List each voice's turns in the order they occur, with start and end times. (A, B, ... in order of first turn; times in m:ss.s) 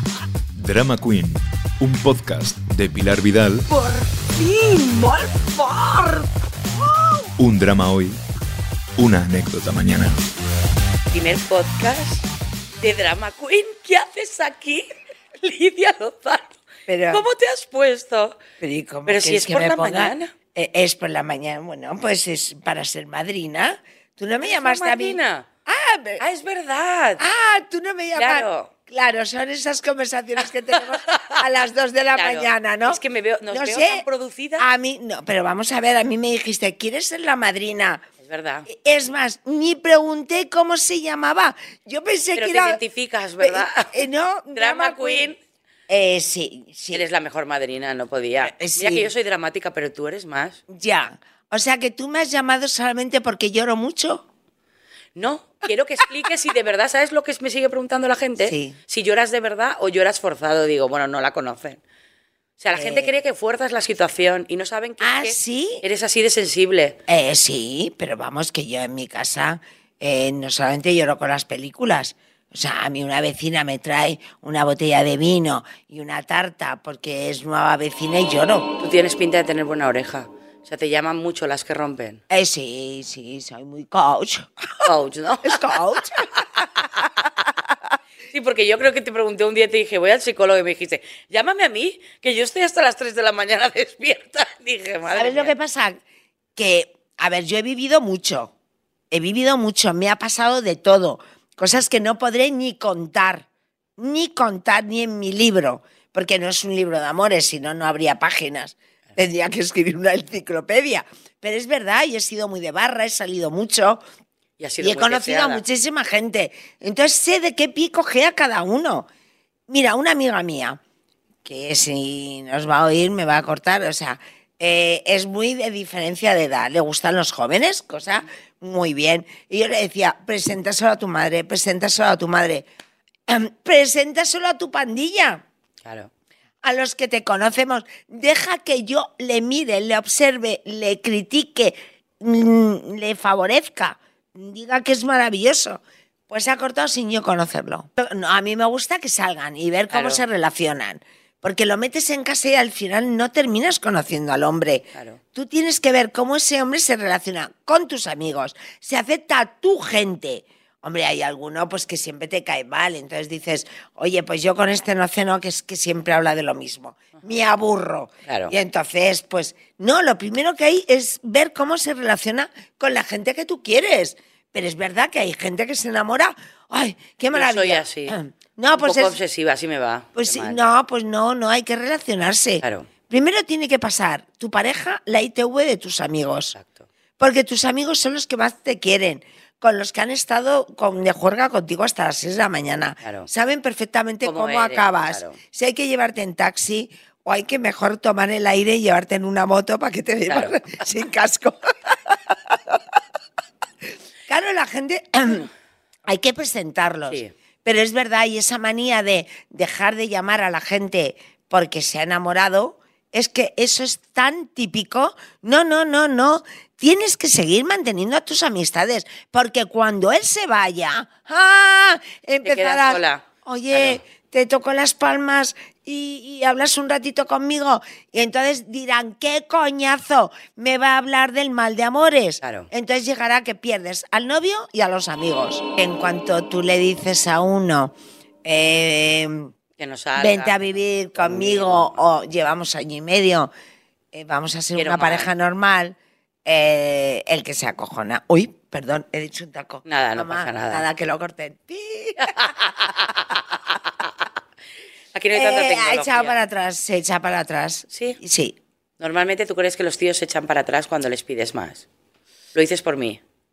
0:00.6-0:03.7 A
0:03.7-0:07.3 B
0:07.4-0:08.2 A
0:09.0-0:10.2 A
0:11.1-0:12.3 C
0:12.8-0:16.6 C
0:16.9-0:17.2 B
0:17.1-0:18.4 C
0:18.6-0:26.2 B
0:19.0-0:20.3 C
0:24.4-0:25.5 C
0:26.2-0:27.2 C
0:27.2-0:34.0 B
0:28.2-0:28.7 C
0:30.7-0:31.4 C
0:32.1-0:34.7 C
0:34.6-0:38.0 B
0:38.2-0:38.7 C
0:38.7-0:42.8 B
0:42.4-0:44.0 C
0:43.4-0:45.3 B
0:44.5-0:45.4 C
0:45.9-0:47.0 B
0:46.9-0:50.6 C
0:48.4-0:49.1 B
0:50.7-0:54.2 B
0:55.2-1:01.8 C
0:58.4-0:58.8 B
1:02.6-1:07.0 C
1:02.7-1:03.1 B
1:05.0-1:05.8 B
1:07.1-1:18.7 B
1:18.8-1:22.2 C
1:22.3-1:24.9 B
1:24.8-1:26.6 C
1:25.4-1:28.0 B
1:28.3-1:35.5 C
1:35.1-1:36.0 B
1:36.6-1:38.5 B
1:39.1-1:43.5 B
1:44.0-1:54.0 B
1:54.6-1:55.6 C
1:54.8-1:59.1 B
1:59.7-2:00.8 B
2:01.4-2:12.6 B
2:13.3-2:15.4 B
2:15.8-2:16.1 C
2:16.6-2:59.2 B
2:29.9-2:30.2 C
2:34.9-2:35.2 C
2:48.2-2:48.5 C
2:57.3-2:58.2 C
2:58.8-3:00.6 C
3:00.1-3:06.5 B
3:02.6-3:02.9 C
3:06.5-3:06.9 C
3:07.2-3:22.8 B
3:13.0-3:13.3 C
3:14.2-3:15.4 C
3:20.3-3:20.6 C
3:24.3-3:25.5 B
3:26.1-3:57.9 B
3:27.1-3:27.3 C
3:42.4-3:44.0 C
3:52.4-3:52.7 C
3:58.4-3:59.5 B
3:59.8-4:02.0 C
4:00.2-4:03.5 B
4:04.1-4:12.9 B
4:04.7-4:05.3 C
4:09.8-4:10.8 C
4:12.2-4:14.3 C
4:15.1-4:16.4 C
4:15.3-4:18.6 B
4:17.9-4:18.2 C
4:19.0-4:21.8 C
4:22.5-4:23.2 C